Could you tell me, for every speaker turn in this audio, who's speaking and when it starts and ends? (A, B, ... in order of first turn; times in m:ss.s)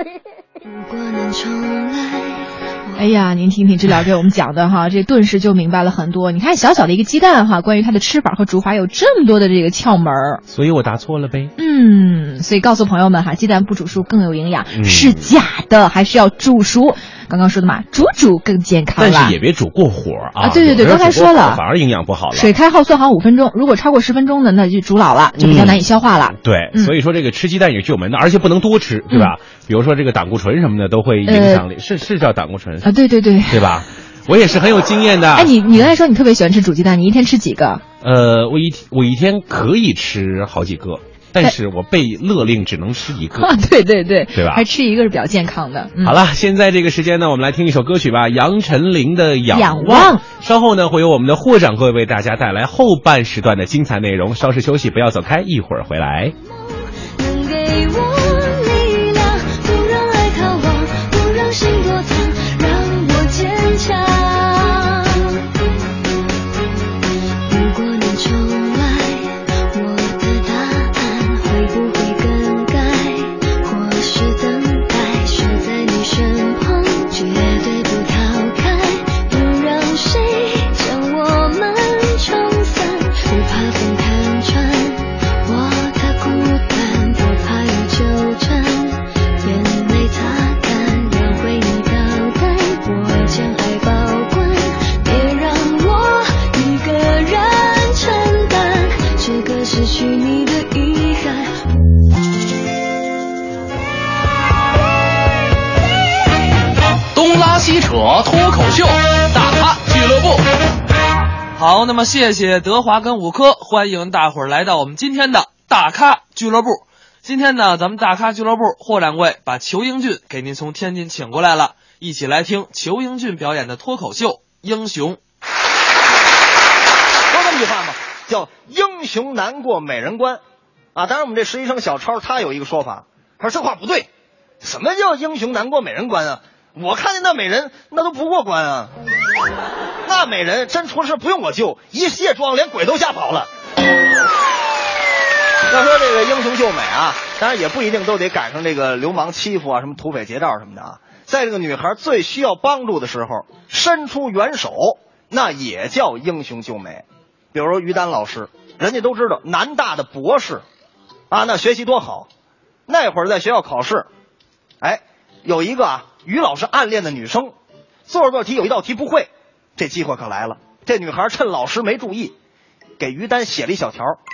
0:00.6-0:03.0 A
0:03.0-0:10.4 B
0:10.5-0:11.5 C
0:11.6-0:19.4 B
0:14.7-0:15.3 C
0:19.0-0:22.5 C
0:20.4-0:21.6 B
0:22.3-0:26.9 B
0:25.4-0:25.8 C
0:26.4-0:32.9 C
0:31.3-0:31.6 B
0:32.8-0:33.7 B
0:33.5-0:35.5 C
0:35.4-0:37.8 B
0:38.0-0:43.5 C
0:43.4-0:46.2 B
0:44.3-0:44.6 C
0:46.0-0:56.4 C
0:49.5-0:50.2 B
0:56.5-1:05.4 A
1:07.5-1:41.6 A
1:47.1-1:50.4 D
1:51.6-2:05.2 D
2:07.3-2:10.4 E
2:11.0-2:14.1 E
2:14.6-2:18.9 E
2:20.0-2:23.5 E
2:25.7-2:40.6 E
2:41.3-2:42.3 E
2:42.9-2:44.1 E
2:44.8-2:47.5 E
2:48.1-2:52.3 E
2:53.0-2:54.2 E